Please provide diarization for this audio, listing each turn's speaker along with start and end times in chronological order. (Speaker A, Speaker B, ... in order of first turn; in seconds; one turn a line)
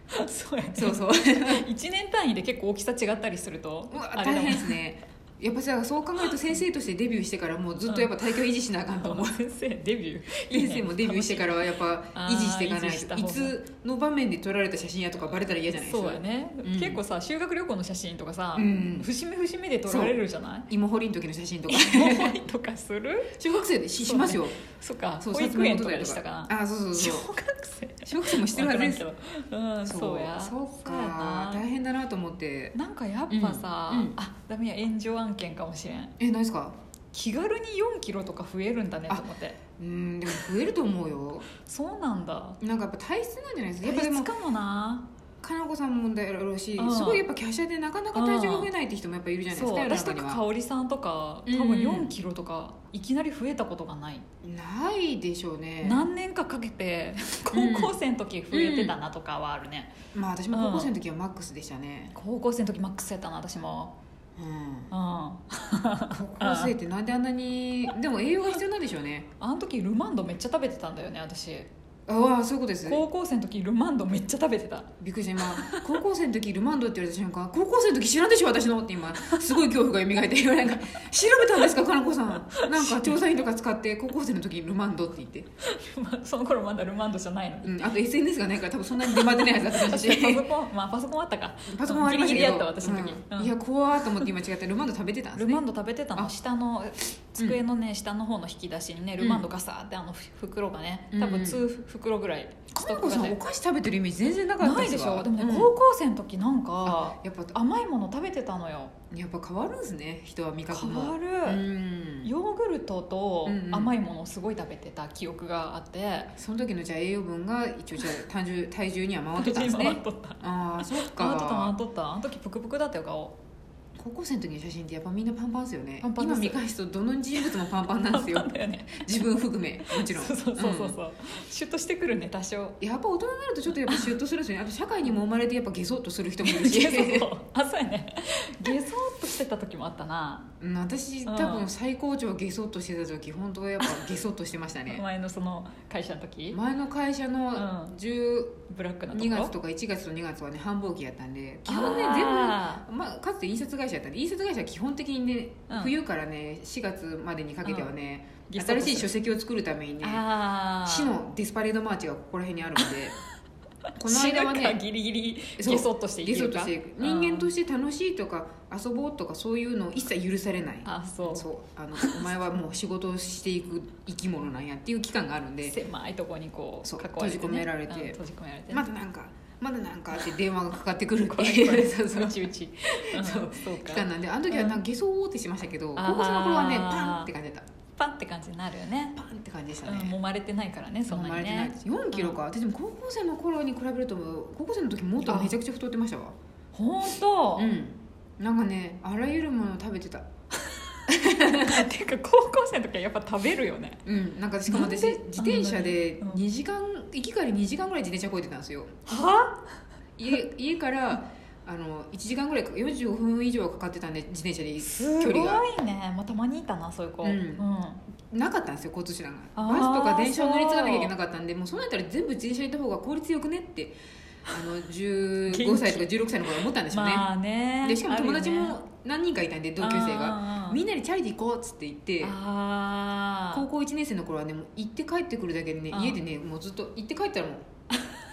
Speaker A: 0.1-4.8
Speaker B: 0.8-1.7
Speaker B: 3.9-9.4
Speaker A: 9.0-11.5
Speaker B: 10.5-17.0
Speaker A: 12.2-13.5
Speaker A: 15.7-20.7
Speaker B: 18.6-19.1
Speaker B: 19.9-22.4
Speaker A: 21.7-23.4
Speaker B: 23.4-24.6
Speaker A: 24.0-31.6
Speaker B: 25.2-27.3
Speaker B: 28.1-29.1
Speaker B: 29.9-32.8
Speaker A: 32.8-36.1
Speaker B: 33.3-34.2
Speaker B: 36.2-36.8
Speaker A: 37.1-39.6
Speaker B: 39.8-41.5
Speaker A: 41.6-42.6
Speaker B: 42.6-44.3
Speaker A: 43.8-45.1
Speaker B: 45.4-50.4
Speaker A: 46.8-47.2
Speaker A: 48.1-48.7
Speaker A: 49.5-54.2
Speaker B: 51.5-52.1
Speaker B: 54.4-56.1
Speaker A: 55.8-59.9
Speaker B: 57.5-58.0
Speaker B: 58.5-59.0
Speaker B: 60.1-62.1
Speaker A: 60.5-60.9
Speaker A: 62.1-64.0
Speaker B: 64.4-64.9
Speaker A: 64.9-66.7
Speaker B: 66.1-69.3
Speaker A: 69.4-71.7
Speaker B: 72.1-73.0
Speaker A: 72.8-74.9
Speaker B: 75.0-85.5
Speaker A: 75.6-75.9
Speaker A: 81.3-81.7
Speaker A: 82.5-83.2
Speaker A: 85.6-87.9
Speaker B: 87.6-90.5
Speaker A: 89.0-94.3
Speaker B: 91.7-95.6
Speaker A: 95.4-103.4
Speaker B: 99.2-99.5
Speaker B: 101.1-101.6
Speaker B: 102.7-105.7
Speaker A: 104.6-108.9
Speaker B: 106.8-107.6
Speaker B: 109.1-112.3
Speaker A: 110.7-111.6
Speaker A: 112.2-116.3
Speaker B: 113.5-114.0
Speaker B: 116.3-121.8
Speaker A: 119.4-123.4
Speaker B: 124.0-131.0
Speaker A: 126.0-126.6
Speaker A: 127.4-129.2
Speaker A: 129.9-132.8
Speaker B: 132.8-137.3
Speaker A: 136.4-140.5
Speaker B: 140.6-145.0
Speaker A: 141.3-141.7
Speaker A: 144.9-146.6
Speaker B: 146.5-148.6
Speaker A: 147.6-147.9
Speaker A: 148.7-149.5
Speaker B: 149.1-160.2
Speaker A: 151.7-152.8
Speaker A: 158.5-159.1
Speaker A: 160.0-161.1
Speaker B: 160.8-163.2
Speaker A: 164.0-167.5
Speaker B: 164.0-164.8
Speaker B: 165.6-175.8
Speaker A: 170.8-172.2
Speaker A: 175.7-178.9
Speaker B: 176.8-178.2
Speaker B: 178.7-187.7
Speaker A: 181.3-184.8
Speaker A: 186.0-187.3
Speaker A: 188.0-189.2
Speaker B: 189.2-190.2
Speaker A: 189.8-192.4
Speaker B: 191.1-196.3
Speaker A: 195.2-195.5
Speaker A: 196.7-197.7
Speaker B: 197.6-200.3
Speaker A: 200.7-204.0
Speaker B: 201.1-201.9
Speaker B: 204.1-209.2
Speaker A: 204.7-206.4
Speaker A: 209.1-209.8
Speaker B: 210.2-215.7
Speaker A: 214.8-218.0
Speaker B: 217.2-217.7
Speaker B: 218.3-223.9
Speaker A: 219.6-221.1
Speaker B: 224.5-227.3
Speaker A: 225.5-226.1
Speaker A: 226.9-228.8
Speaker B: 227.8-232.4
Speaker A: 229.8-230.8
Speaker A: 232.2-233.7
Speaker B: 233.5-237.7
Speaker A: 235.9-236.2